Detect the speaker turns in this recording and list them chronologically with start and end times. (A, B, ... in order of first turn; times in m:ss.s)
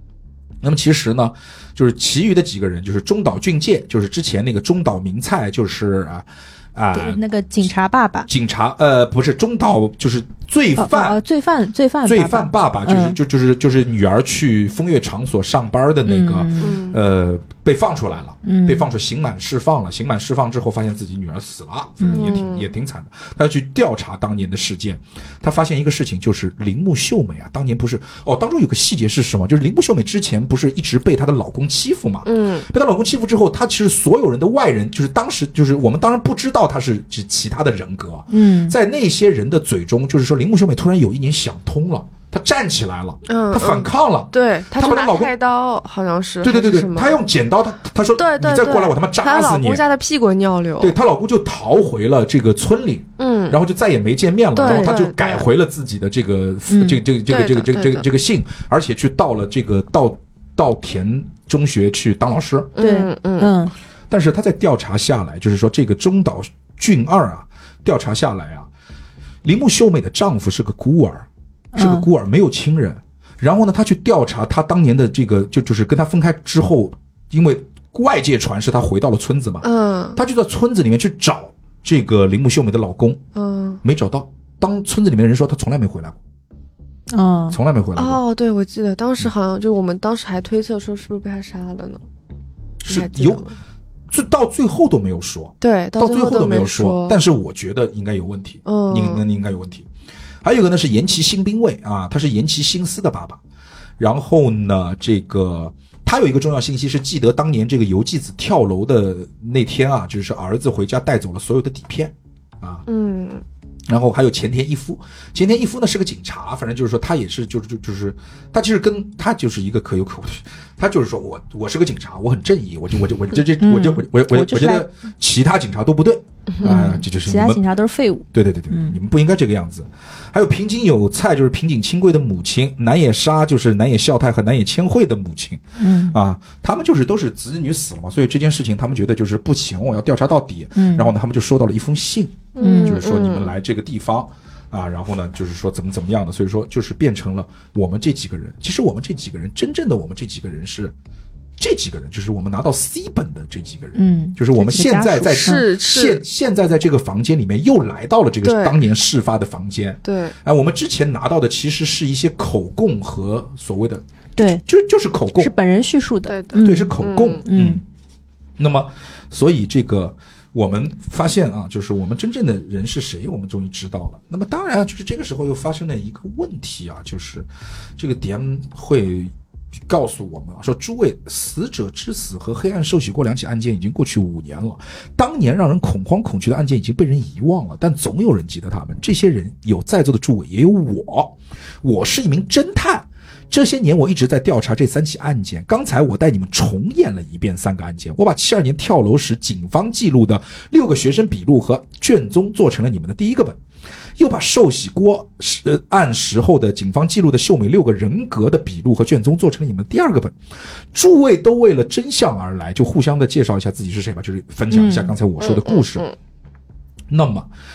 0:00.6-0:07.7 A
0:06.9-0:08.3 B
0:08.3-0:11.2 A
0:10.8-0:13.2 B
0:12.0-0:45.3 A
0:16.1-0:16.8 B
0:16.6-0:17.0 C
0:18.4-0:18.9 B
0:22.0-0:22.4 B
0:22.0-0:22.7 C
0:32.3-0:32.7 C
0:38.3-0:38.8 B
0:43.3-0:47.2 C
0:46.4-0:49.8 A
0:48.2-0:51.0 C
0:50.8-1:02.7 A
0:53.2-0:53.6 C
0:54.6-0:55.5 C
0:54.6-0:55.0 B
0:56.7-0:57.0 B
0:57.3-0:58.1 C
1:02.8-1:03.5 C
1:02.8-1:03.7 B
1:04.1-1:08.7 A
1:09.4-1:23.2 A
1:11.7-1:12.1 B
1:19.6-1:20.2 C
1:23.4-1:23.8 C
1:23.8-1:26.2 A
1:27.1-1:27.6 B
1:27.5-1:28.2 A
1:28.0-1:32.0 C
1:32.8-1:33.4 A
1:32.9-1:33.6 C
1:34.1-1:39.9 A
1:35.6-1:37.2 C
1:38.7-1:39.2 C
1:40.4-1:43.4 A
1:44.0-1:52.9 A
1:52.9-1:53.4 C
1:53.9-2:07.6 A
2:03.6-2:04.9 B
2:06.6-2:06.9 C
2:06.6-2:09.0 B
2:08.3-2:31.0 A
2:15.8-2:16.2 B
2:20.8-2:21.1 B
2:22.6-2:23.5 C
2:22.6-2:23.0 B
2:31.6-2:45.5 A
2:34.0-2:35.6 B
2:35.4-2:36.2 C
2:38.4-2:38.8 C
2:40.0-2:40.4 C
2:44.4-2:44.6 B
2:45.4-2:47.8 B
2:46.3-2:47.4 C
2:46.6-2:47.8 A
2:48.6-2:59.3 A
2:59.9-3:23.6 A
3:24.2-3:30.4 A
3:30.9-3:36.1 A
3:34.7-3:35.2 B
3:35.4-3:36.1 C
3:37.1-3:37.5 A